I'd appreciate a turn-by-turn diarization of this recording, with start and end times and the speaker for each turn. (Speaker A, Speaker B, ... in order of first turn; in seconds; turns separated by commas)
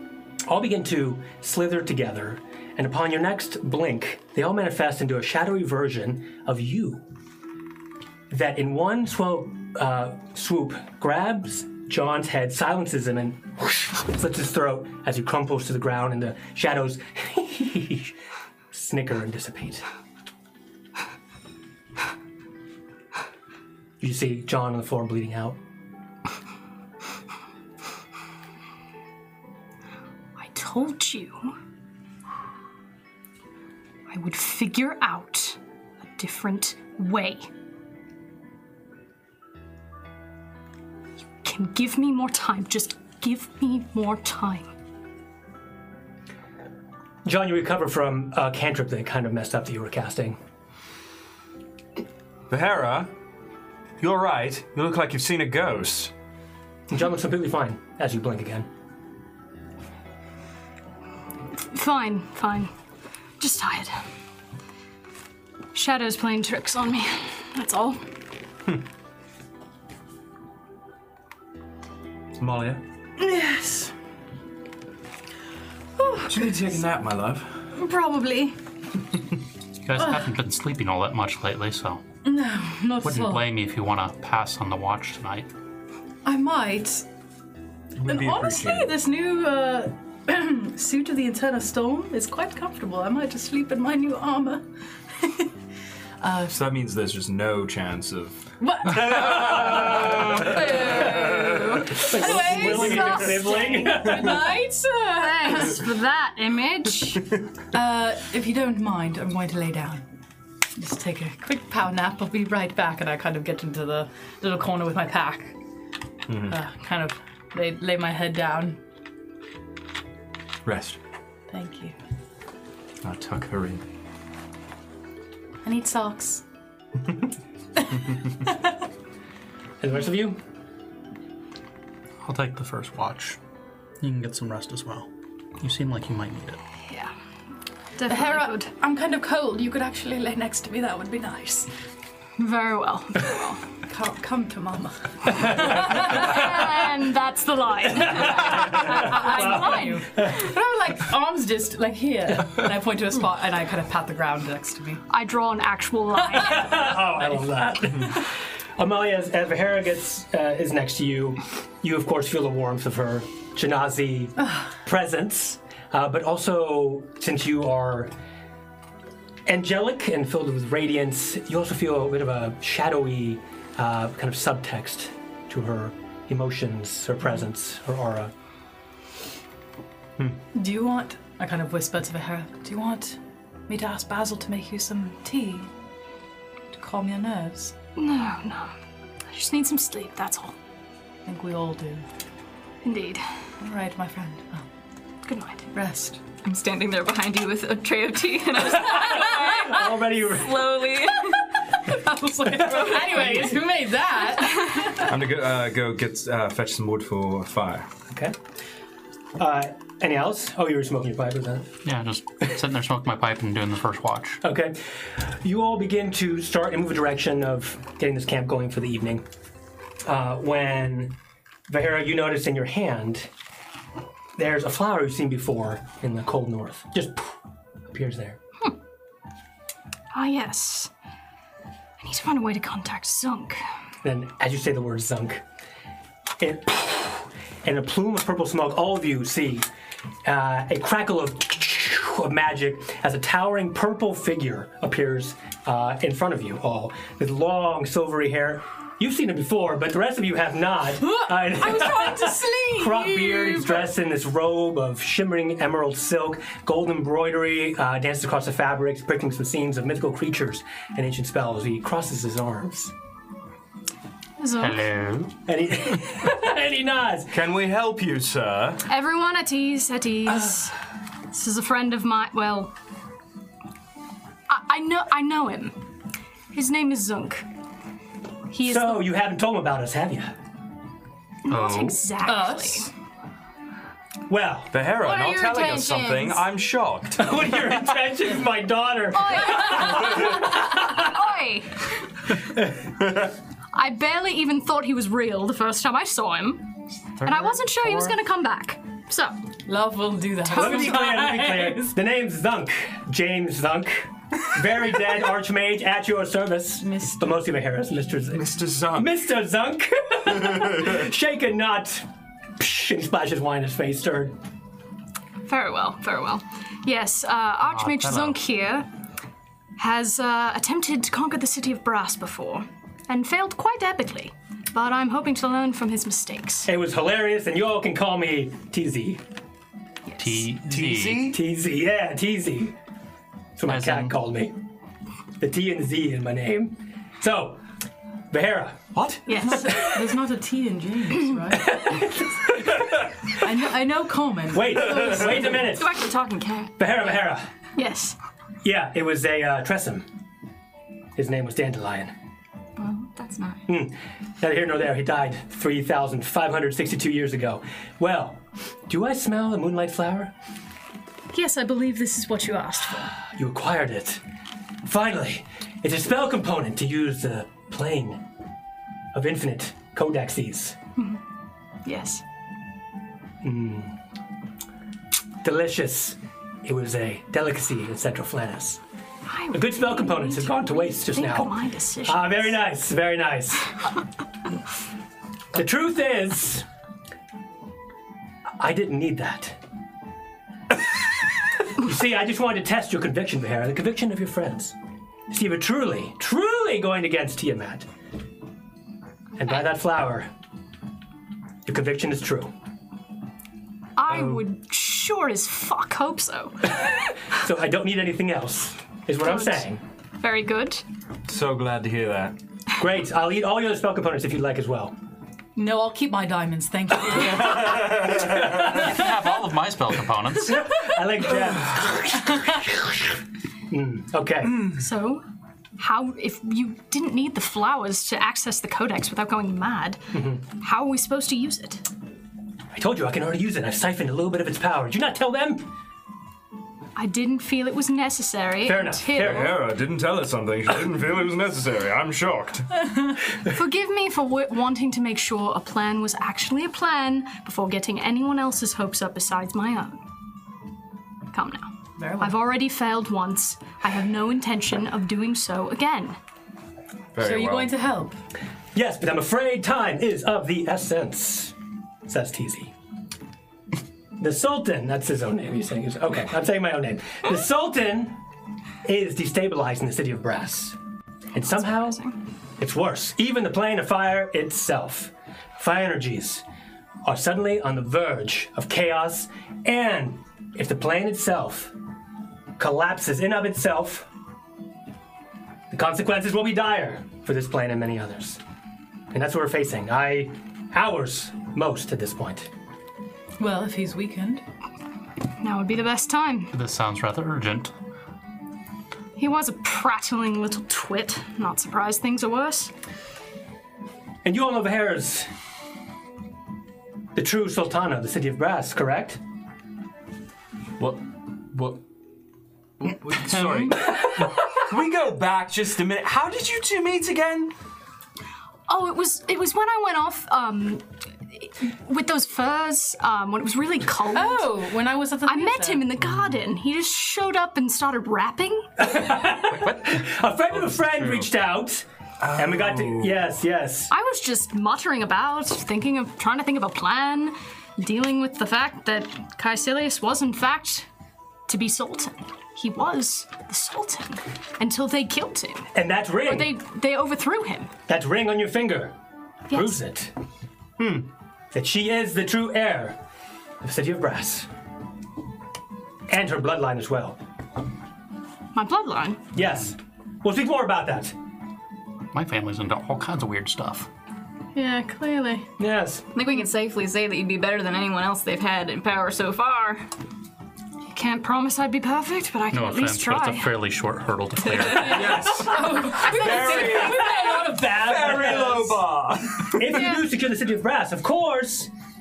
Speaker A: 0.4-7.0, Speaker A: 8.3-18.1, Speaker A: 18.7-19.8, Speaker A: 24.0-25.6, Speaker B: 30.4-31.5, Speaker B: 34.1-37.5, Speaker B: 41.4-44.7, Speaker A: 47.2-50.4, Speaker C: 52.5-53.1, Speaker C: 54.0-56.1, Speaker A: 56.9-58.7, Speaker B: 61.6-62.7, Speaker B: 63.4-64.0, Speaker B: 65.7-68.0, Speaker C: 72.3-72.8, Speaker D: 73.2-73.9, Speaker D: 76.0-76.6, Speaker C: 76.2-77.5, Speaker D: 77.8-78.5, Speaker E: 79.8-82.0, Speaker D: 80.0-80.3, Speaker D: 82.2-83.5, Speaker E: 83.0-85.5, Speaker D: 86.2-87.0, Speaker C: 88.0-88.9, Speaker D: 88.0-95.5, Speaker D: 96.2-96.5, Speaker C: 96.5-101.6, Speaker D: 98.6-105.8, Speaker A: 100.9-104.5, Speaker B: 102.5-103.4, Speaker B: 105.1-107.2, Speaker D: 107.7-110.0, Speaker D: 110.8-115.5, Speaker C: 116.3-116.6, Speaker D: 116.4-118.8, Speaker C: 120.6-121.0, Speaker D: 121.5-121.9, Speaker C: 123.0-123.8, Speaker D: 125.6-126.4, Speaker D: 127.9-128.5, Speaker A: 129.8-130.4, Speaker E: 132.2-133.4, Speaker E: 134.0-135.1, Speaker E: 135.6-136.6, Speaker B: 138.0-138.7, Speaker D: 138.1-141.7, Speaker B: 142.4-143.6, Speaker D: 143.9-146.4, Speaker B: 145.6-150.3, Speaker A: 148.1-150.4, Speaker D: 148.2-155.0, Speaker B: 155.1-156.9, Speaker A: 156.4-158.2, Speaker A: 158.8-168.1, Speaker A: 169.4-178.3, Speaker D: 180.5-185.7, Speaker D: 186.7-187.8, Speaker B: 187.9-188.7, Speaker B: 189.3-190.5, Speaker D: 191.2-192.0, Speaker B: 192.8-193.2, Speaker D: 193.6-194.6, Speaker B: 195.2-195.7, Speaker D: 195.7-196.2, Speaker F: 196.4-201.4, Speaker A: 198.8-200.9, Speaker D: 201.8-205.1, Speaker C: 205.0-207.9, Speaker A: 208.1-208.3, Speaker A: 209.4-211.7, Speaker E: 211.8-214.4, Speaker A: 214.4-219.2, Speaker A: 220.0-221.2, Speaker A: 221.7-223.3, Speaker A: 224.4-227.3, Speaker A: 227.9-228.4, Speaker B: 230.1-230.9, Speaker B: 232.0-233.6, Speaker A: 234.0-235.4, Speaker A: 236.4-239.7, Speaker A: 240.2-262.9, Speaker D: 251.0-253.9, Speaker B: 264.4-264.8, Speaker E: 264.6-265.4, Speaker A: 265.4-267.3, Speaker C: 267.3-268.8, Speaker B: 268.9-270.8, Speaker B: 271.3-272.7, Speaker B: 274.5-275.8, Speaker B: 276.5-277.4, Speaker B: 278.5-279.1, Speaker A: 278.6-280.3, Speaker B: 281.4-282.9, Speaker E: 281.5-282.0, Speaker D: 282.2-282.9, Speaker A: 284.3-284.8, Speaker C: 284.7-287.7, Speaker B: 284.9-286.4, Speaker A: 287.1-291.1, Speaker B: 289.1-292.0, Speaker B: 293.7-299.4, Speaker E: 297.2-297.9, Speaker D: 299.7-301.1, Speaker B: 300.5-301.8, Speaker A: 300.5-312.1, Speaker D: 306.8-307.4, Speaker C: 308.3-309.2, Speaker A: 312.6-314.4, Speaker B: 315.4-318.9, Speaker E: 317.7-318.4, Speaker B: 319.8-326.7, Speaker A: 326.6-329.2, Speaker B: 330.1-330.4, Speaker E: 330.2-331.3, Speaker C: 330.6-331.4, Speaker A: 331.3-332.7, Speaker A: 333.6-334.6, Speaker E: 333.7-334.1, Speaker A: 335.4-337.6, Speaker A: 338.3-338.9, Speaker C: 338.9-339.3, Speaker B: 339.3-339.9, Speaker D: 339.4-341.9, Speaker A: 339.5-340.0, Speaker A: 341.5-343.4, Speaker D: 343.3-345.7, Speaker A: 344.5-346.0, Speaker F: 345.6-346.8, Speaker A: 346.8-347.5, Speaker B: 347.8-348.1, Speaker A: 348.6-350.1, Speaker A: 351.1-352.1, Speaker F: 352.8-353.6, Speaker A: 353.7-360.3, Speaker B: 361.3-363.1, Speaker A: 363.2-364.2, Speaker A: 364.8-368.2, Speaker A: 369.1-370.8, Speaker B: 371.8-372.2, Speaker A: 373.4-373.9, Speaker A: 375.4-378.8, Speaker B: 379.3-382.6, Speaker A: 379.5-381.5, Speaker A: 382.0-383.7, Speaker A: 385.5-386.6, Speaker A: 388.6-389.6, Speaker A: 391.7-394.7, Speaker A: 395.3-397.9, Speaker A: 399.4-400.3, Speaker A: 401.6-402.5, Speaker B: 404.0-406.9, Speaker A: 407.3-409.8, Speaker B: 409.2-409.6, Speaker B: 410.2-410.8, Speaker C: 411.3-412.3, Speaker A: 412.8-414.9, Speaker D: 415.6-417.9, Speaker C: 417.6-418.2, Speaker A: 417.7-419.0, Speaker E: 418.5-420.7, Speaker A: 420.4-424.7, Speaker B: 424.6-425.2, Speaker B: 425.8-431.8, Speaker A: 430.1-430.4, Speaker A: 432.7-435.7, Speaker B: 436.9-439.6, Speaker A: 438.6-439.5, Speaker C: 439.1-442.7, Speaker B: 443.4-450.0, Speaker B: 451.3-456.2, Speaker D: 452.0-452.3, Speaker C: 457.1-457.8, Speaker D: 457.2-458.2, Speaker A: 458.7-461.5, Speaker A: 462.1-462.7, Speaker A: 464.2-468.2, Speaker A: 468.8-470.8, Speaker A: 471.3-472.0, Speaker B: 471.4-472.1, Speaker A: 472.6-476.4, Speaker A: 477.0-481.7, Speaker A: 482.6-484.1, Speaker A: 485.7-488.4, Speaker A: 489.1-492.5, Speaker D: 493.4-494.4, Speaker B: 495.4-496.5, Speaker E: 496.5-497.7, Speaker B: 499.2-502.7, Speaker A: 504.2-505.3, Speaker A: 507.1-509.2, Speaker C: 510.8-511.8, Speaker C: 512.8-517.5, Speaker B: 518.7-524.6, Speaker D: 524.1-525.9, Speaker B: 525.2-528.7, Speaker A: 528.8-533.9, Speaker C: 532.2-533.2, Speaker B: 533.9-540.9, Speaker B: 541.5-545.7, Speaker A: 545.7-546.5, Speaker B: 546.2-547.7, Speaker A: 547.9-548.9, Speaker B: 549.5-549.8, Speaker A: 549.5-550.1, Speaker C: 550.8-551.0, Speaker A: 551.5-553.0, Speaker A: 553.6-554.5, Speaker A: 556.1-557.2, Speaker B: 558.5-559.2, Speaker A: 559.3-561.1, Speaker E: 562.1-563.9, Speaker B: 564.5-565.5, Speaker A: 565.6-566.1, Speaker F: 566.1-569.9, Speaker B: 570.9-573.5, Speaker E: 572.5-575.2, Speaker C: 574.8-579.8, Speaker A: 575.0-578.8, Speaker D: 575.4-577.7, Speaker B: 576.0-577.0, Speaker A: 579.5-581.7, Speaker B: 579.7-580.0